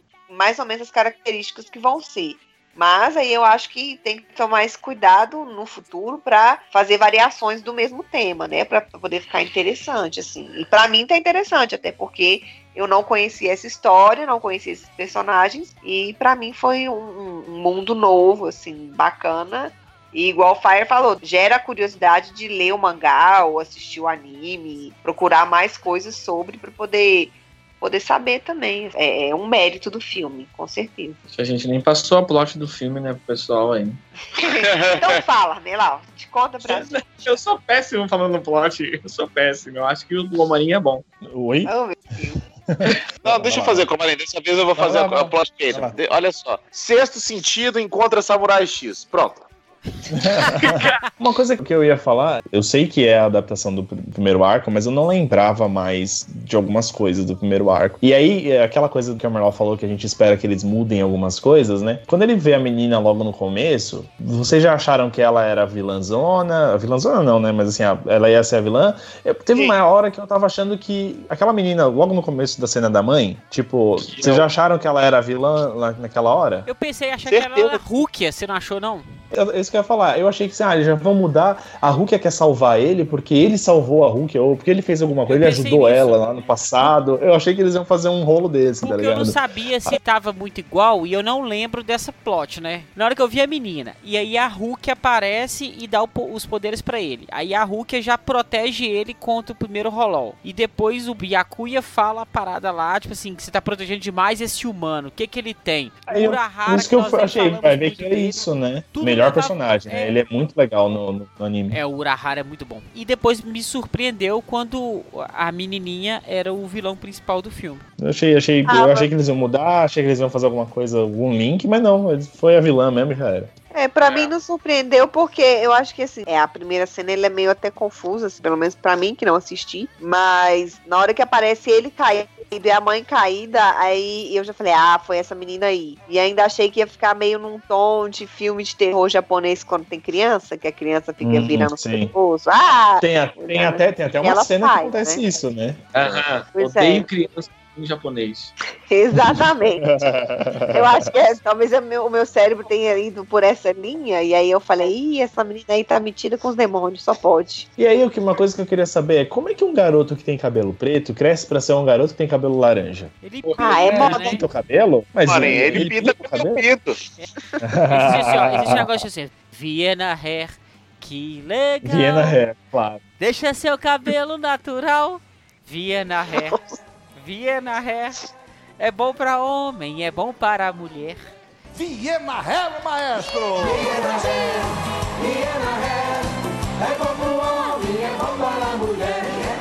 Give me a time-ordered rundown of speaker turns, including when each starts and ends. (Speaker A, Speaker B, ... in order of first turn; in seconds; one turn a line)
Speaker A: 0.3-31.2
Speaker B: 31.3-34.0
Speaker A: 34.4-37.1
Speaker C: 34.5-35.2
Speaker B: 36.6-41.0
Speaker D: 41.3-41.7
Speaker A: 41.7-42.4
Speaker D: 43.2-43.9
Speaker C: 43.2-49.5
Speaker D: 44.8-46.0
Speaker D: 50.1-76.7
Speaker B: 74.0-74.5
Speaker E: 76.7-79.1
Speaker C: 77.3-77.9
Speaker D: 79.3-90.0
Speaker E: 85.3-86.9
Speaker E: 88.8-110.2
Speaker D: 106.1-111.8
Speaker E: 111.7-117.8
Speaker D: 118.0-123.5
Speaker A: 118.7-119.1
Speaker A: 123.7-145.2
Speaker C: 124.0-124.3
Speaker D: 141.2-142.1
Speaker D: 143.0-146.2
Speaker B: 145.9-148.5
Speaker A: 146.6-147.1
Speaker A: 148.9-149.9
Speaker D: 149.8-151.0
Speaker A: 150.7-157.7
Speaker D: 157.8-163.1
Speaker E: 163.2-164.4
Speaker B: 163.4-164.3
Speaker A: 163.6-164.2
Speaker D: 164.1-166.7
Speaker C: 165.3-167.0
Speaker D: 167.6-169.1
Speaker E: 167.9-172.4
Speaker D: 171.8-173.0
Speaker E: 173.2-176.6
Speaker A: 176.3-176.6
Speaker E: 177.2-178.2
Speaker E: 178.8-181.3
Speaker F: 181.8-184.2
Speaker F: 186.9-189.3